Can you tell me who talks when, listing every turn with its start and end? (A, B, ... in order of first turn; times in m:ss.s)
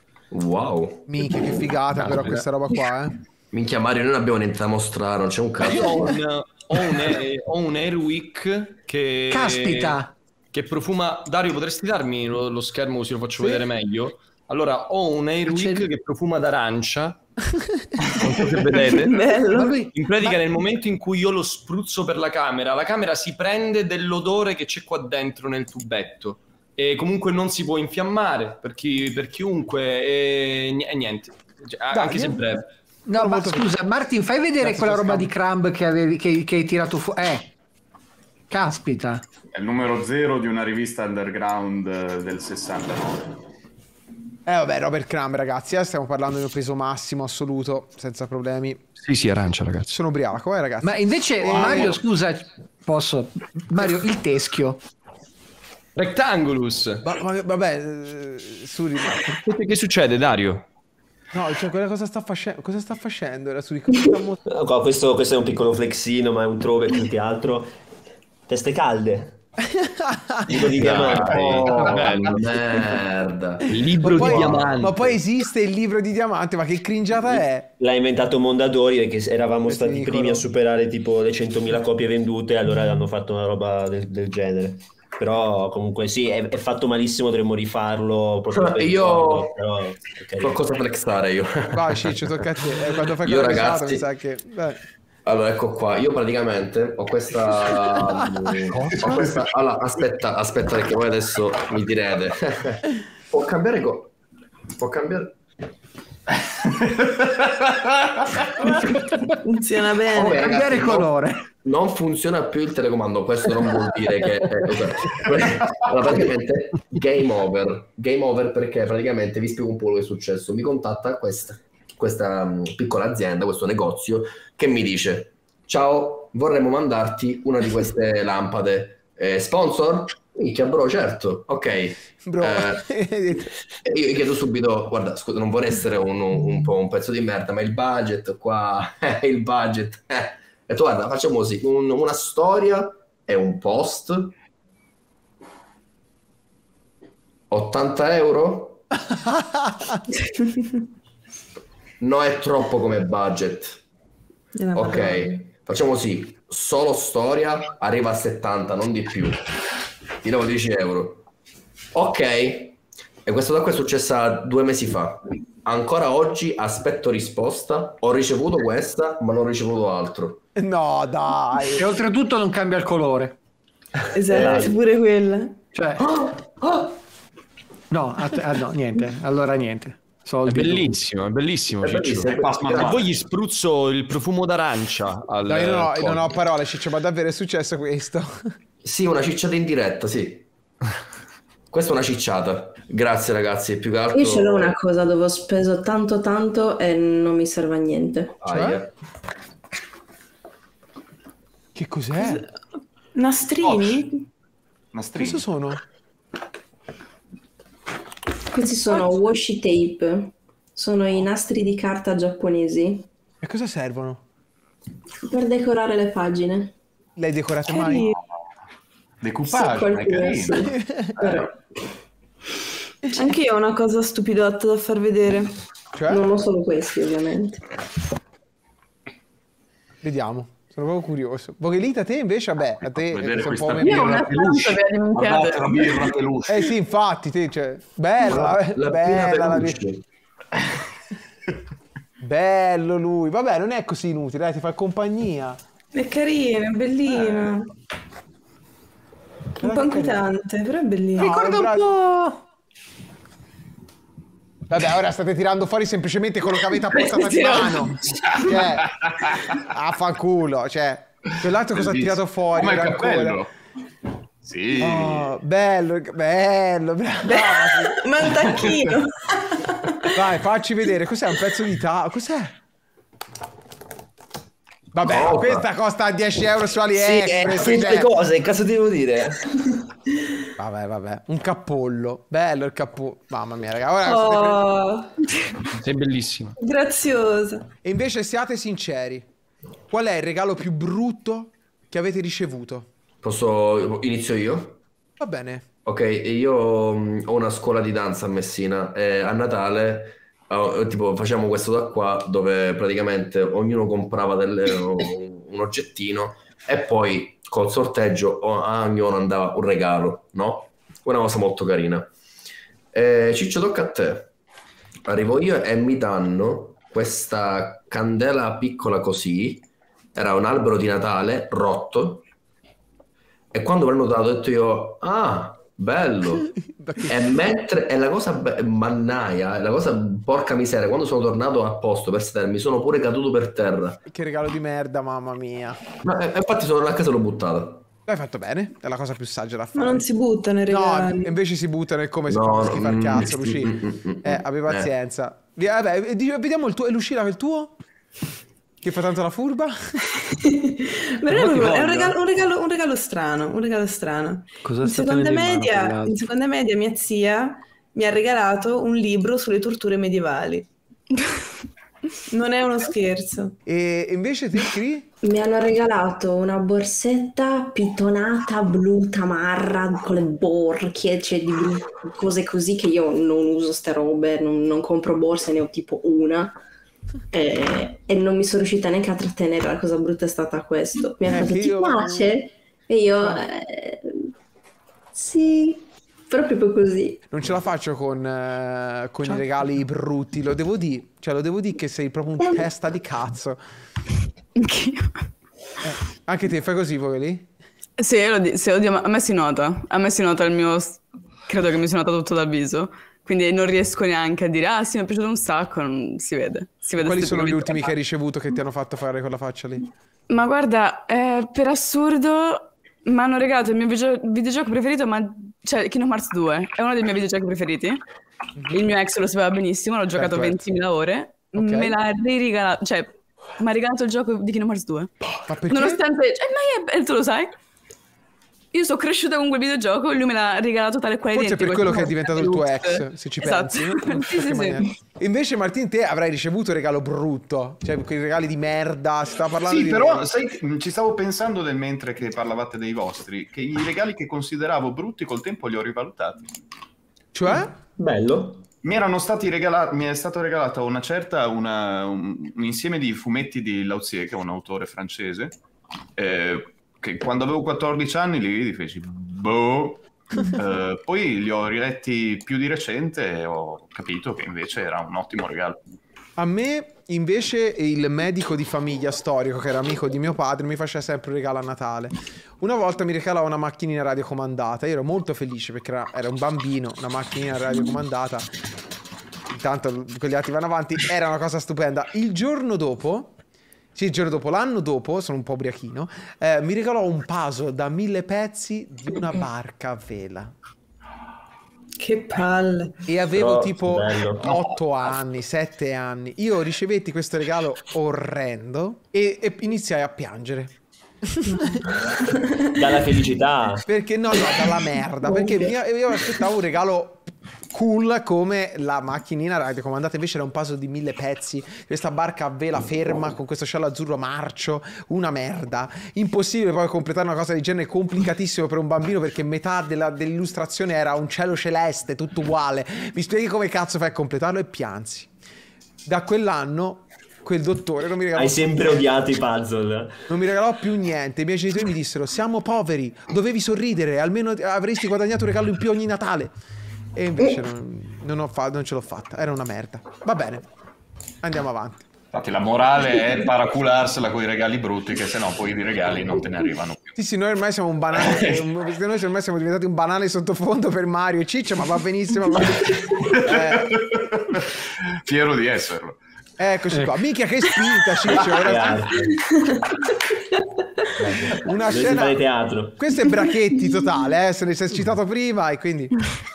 0:00.3-0:02.0 A
0:01.1-0:03.1 B
0:03.5-0:06.2 A
0:05.6-0:10.0 C
0:09.3-0:10.1 D
0:10.5-0:17.2 C
0:15.5-0:15.9 D
0:18.2-0:19.2 C
0:19.0-0:19.7 E
0:19.5-0:20.4 D
0:19.9-0:32.7 C
0:31.9-0:32.4 D
0:33.0-0:37.5 D
0:33.2-0:33.7 B
0:34.6-0:35.3 B
0:38.5-0:39.2 D
0:39.5-0:43.3 F
0:44.4-0:48.8 B
0:49.0-0:49.9 C
0:49.9-0:52.0 B
0:50.8-0:54.8 D
0:51.4-0:52.0 F
0:55.9-0:57.0 C
0:57.0-0:59.4 B
0:59.4-1:00.6 C
1:01.3-1:04.4 B
1:04.4-1:07.7 G
1:08.5-1:09.4 G
1:09.6-1:11.0 B
1:10.5-1:11.8 G
1:10.5-1:12.9 F
1:11.0-1:14.7 A
1:13.7-1:14.9 C
1:13.9-1:15.0 F
1:14.0-1:17.7 B
1:17.8-1:30.6 G
1:19.7-1:20.4 B
1:28.5-1:29.5 A
1:30.4-1:32.0 A
1:31.7-1:34.8 B
1:33.2-1:34.0 A
1:35.2-1:44.1 A
1:38.8-1:39.4 F
1:44.8-1:45.4 A
1:47.0-1:48.2 F
1:48.7-1:49.3 D
1:49.4-1:50.4 E
1:50.1-1:51.4 D
1:50.2-2:12.9 A
2:12.2-2:13.5 B
2:13.8-2:24.3 A
2:27.5-2:28.9 A
2:29.3-2:29.7 B
2:32.0-2:33.8 A
2:34.6-2:35.4 E
2:34.7-2:39.4 A
2:40.2-2:41.2 A
2:41.9-2:50.4 A
2:50.6-2:51.9 B
2:51.8-2:53.4 D
2:54.1-2:55.6 E
2:54.3-2:54.7 G
2:54.4-2:54.6 A
2:55.7-2:56.1 D
2:56.0-2:56.3 A
2:57.9-3:01.0 D
3:00.4-3:06.2 C
3:01.8-3:03.1 A
3:02.4-3:02.8 F
3:05.4-3:08.5 B
3:08.8-3:10.4 A
3:11.7-3:14.7 A
3:14.1-3:18.4 H
3:18.4-3:18.9 A
3:18.5-3:18.8 B
3:21.7-3:22.4 B
3:23.2-3:24.2 E
3:23.6-3:24.0 F
3:24.9-3:25.5 F
3:25.2-3:25.8 B
3:28.5-3:33.1 H
3:33.4-3:34.2 B
3:35.2-3:36.7 H
3:37.2-3:38.0 B
3:37.7-3:38.2 E
3:39.2-3:40.7 F
3:39.5-3:41.5 H
3:40.8-3:41.3 B
3:43.2-3:45.5 E
3:45.9-3:46.2 B
3:46.1-3:47.6 H
3:50.0-3:54.3 B
3:52.8-3:56.7 F
3:53.8-3:56.0 I
3:56.5-3:59.8 B
3:58.2-4:00.0 A
4:02.2-4:05.6 B
4:05.9-4:07.7 E
4:09.6-4:11.4 E
4:09.6-4:10.2 B
4:11.2-4:11.9 B
4:11.2-4:12.4 D
4:14.7-4:18.9 B
4:17.1-4:17.9 I
4:18.2-4:19.6 F
4:19.5-4:23.4 B
4:21.7-4:23.5 F
4:24.4-4:25.3 F
4:24.8-4:28.0 B
4:27.9-4:30.1 E
4:30.1-4:32.5 B
4:34.9-4:38.1 B
4:35.1-4:35.4 G
4:36.9-4:39.3 G
4:40.6-4:44.6 B
4:44.0-4:45.6 E
4:45.7-4:46.6 C
4:46.6-4:47.7 E
4:47.8-4:49.2 B
4:49.9-4:52.9 B
4:53.2-4:54.8 A
4:55.2-4:55.6 B
4:55.8-5:12.1 A
5:12.9-5:14.3 A
5:15.0-5:22.2 A
5:23.5-5:26.5 A
5:26.8-5:27.1 B
5:27.0-5:34.0 A
5:34.1-5:35.8 B
5:36.0-5:37.8 A
5:38.1-5:40.0 B
5:39.7-5:41.3 E
5:40.7-5:47.7 B
5:42.3-5:44.9 A
5:48.8-5:49.8 B
5:50.3-6:00.7 E
5:51.3-5:52.2 D
5:54.6-5:56.2 D
6:02.3-6:03.6 E
6:03.6-6:05.0 B
6:05.2-6:16.6 H
6:17.3-6:24.3 H
6:21.3-6:22.3 B
6:25.1-6:27.2 H
6:27.3-6:33.6 B
6:34.6-6:35.2 I
6:35.8-6:37.4 B
6:38.0-6:47.9 I
6:47.0-6:49.8 B
6:50.3-6:58.0 I
6:58.7-7:05.1 I
7:00.1-7:00.6 B
7:01.5-7:02.0 B
7:05.5-7:06.0 B
7:05.7-7:07.5 I
7:08.7-7:14.9 I
7:11.3-7:20.3 B
7:19.6-7:26.4 F
7:27.3-7:27.7 B
7:28.0-7:28.6 G
7:28.8-7:35.6 F
7:36.2-7:45.8 F
7:46.4-7:58.5 B
7:59.5-8:03.3 B
8:03.9-8:10.5 B
8:12.0-8:13.0 E
8:13.1-8:20.7 B
8:13.3-8:14.4 G
8:14.5-8:14.7 F
8:21.3-8:21.8 B
8:22.7-8:23.8 G
8:23.8-8:45.3 B
8:25.3-8:25.6 H
8:46.0-8:49.0 B
8:48.3-8:50.2 G
8:50.3-8:56.5 B
8:57.2-9:00.6 B
9:01.4-9:02.1 B
9:02.3-9:07.1 F
9:07.2-9:14.0 B
9:08.1-9:08.7 F
9:13.4-9:16.2 F
9:16.6-9:19.1 B
9:16.9-9:17.2 D
9:18.6-9:19.3 G
9:19.4-9:19.8 E
9:21.1-9:23.0 G
9:21.6-9:26.2 B